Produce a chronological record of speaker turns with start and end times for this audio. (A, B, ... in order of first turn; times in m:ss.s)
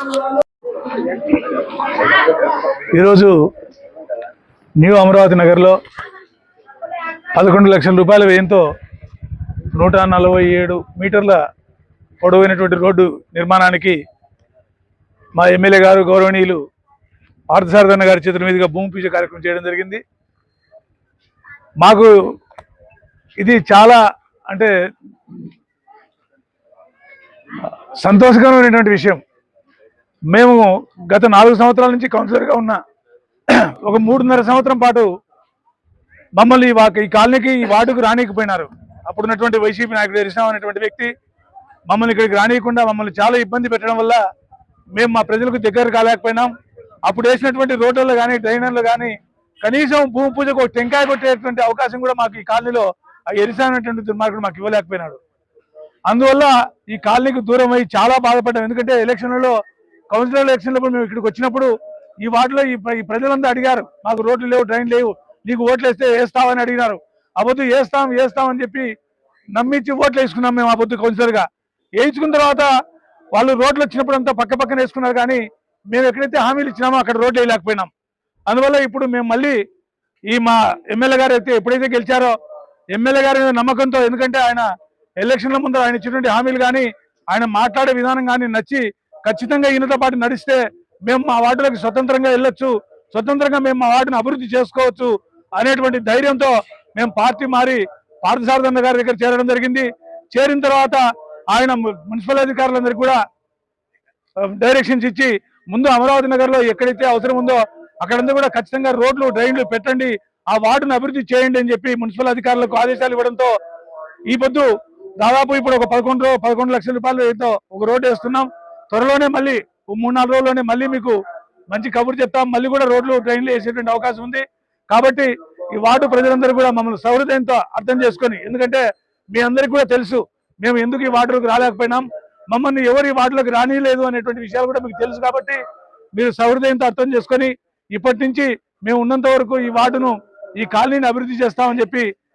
0:02.9-0:03.3 A
0:04.8-0:05.8 A
0:07.4-0:08.6 A
0:09.7-0:11.4 A
0:12.2-0:14.0 A
0:15.4-0:16.6 A
0:17.5-0:20.0 A
0:21.8-0:22.1 A
0:23.4-0:24.7 A
0:28.0-0:29.2 A
0:30.3-0:32.8 A
0:33.8-0:35.1 A
0:36.4-0:41.1 A
0:41.9-0:44.2 A
0:45.0-0:46.5 A
0:47.0-0:55.2 A
0:56.1-0:59.5 A
1:00.1-1:01.7 A
1:02.2-1:08.9 A
1:09.5-1:11.4 A
1:12.0-1:12.7 A
1:13.3-1:17.9 A
1:18.5-1:19.6 A
1:20.3-1:22.3 A
1:22.9-1:24.7 A
1:25.2-1:43.2 A
1:44.4-1:53.5 A
1:54.3-1:54.7 A
1:55.2-2:01.2 A
2:01.7-2:15.6 A
2:16.2-2:22.1 A